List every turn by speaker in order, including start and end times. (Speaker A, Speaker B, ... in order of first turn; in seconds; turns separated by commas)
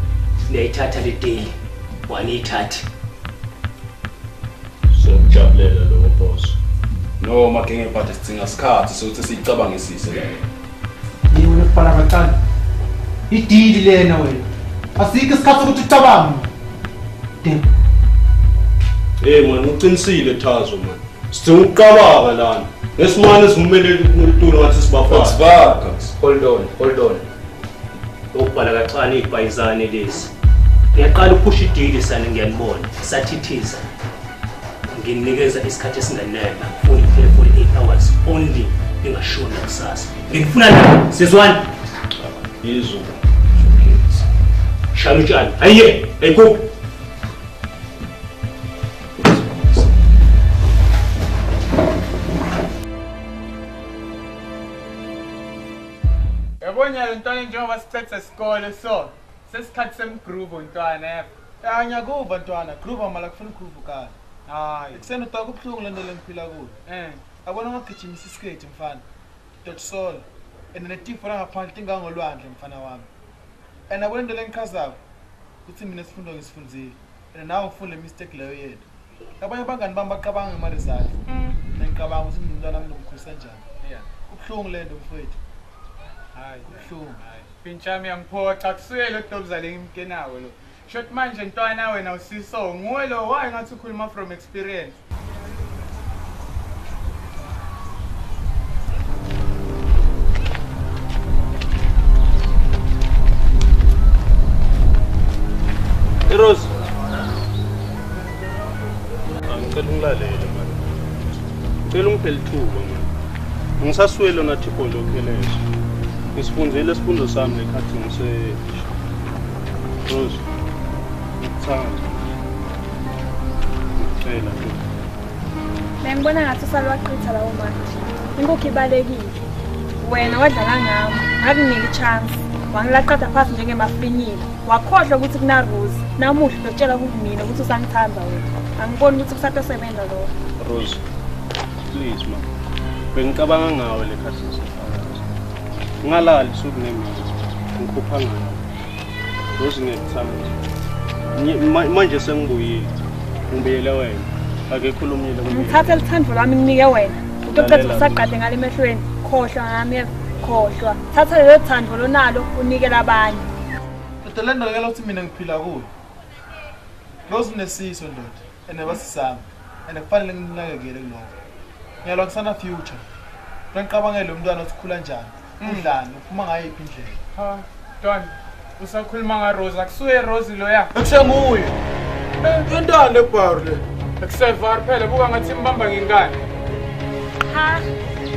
Speaker A: 0.5-1.5, Speaker A: 2.0-2.9, Speaker B: 4.9-6.5, Speaker C: 7.2-10.4, Speaker D: 11.3-12.4, Speaker D: 13.3-16.5, Speaker B: 19.2-25.4, Speaker C: 25.1-26.1, Speaker A: 26.2-27.2, Speaker A: 28.3-30.3, Speaker A: 30.9-33.9, Speaker A: 34.9-41.7, Speaker B: 42.2-44.2, Speaker A: 44.9-46.7, Speaker E: 56.6-61.3, Speaker F: 61.6-64.1, Speaker E: 64.5-65.1, Speaker F: 64.9-66.8, Speaker E: 66.8-67.3, Speaker F: 67.3-69.0, Speaker F: 69.6-73.1, Speaker F: 73.9-75.0, Speaker F: 75.6-78.8, Speaker F: 79.4-81.2, Speaker E: 81.3-81.6, Speaker F: 81.7-83.6, Speaker E: 83.8-84.1, Speaker F: 84.2-85.4, Speaker E: 86.3-95.0, Speaker F: 86.7-87.2, Speaker B: 106.3-106.7, Speaker B: 109.5-111.0, Speaker B: 111.8-113.1, Speaker B: 113.8-115.6, Speaker B: 116.3-118.9, Speaker B: 120.0-120.4, Speaker B: 121.5-122.2, Speaker B: 124.0-124.8, Speaker G: 126.0-129.4, Speaker G: 130.0-140.3, Speaker B: 140.6-141.0, Speaker B: 141.8-142.5, Speaker B: 143.1-145.2, Speaker B: 146.0-148.6, Speaker B: 149.6-150.5, Speaker B: 151.3-152.9, Speaker B: 153.5-156.1, Speaker G: 155.4-163.5, Speaker B: 157.4-158.3, Speaker F: 164.2-165.9, Speaker F: 167.3-171.3, Speaker F: 172.0-173.0, Speaker F: 173.7-177.2, Speaker E: 175.6-175.9, Speaker E: 177.3-180.9, Speaker F: 180.9-181.7, Speaker E: 182.4-182.7, Speaker F: 182.7-183.8, Speaker E: 184.2-186.4, Speaker G: 187.4-187.8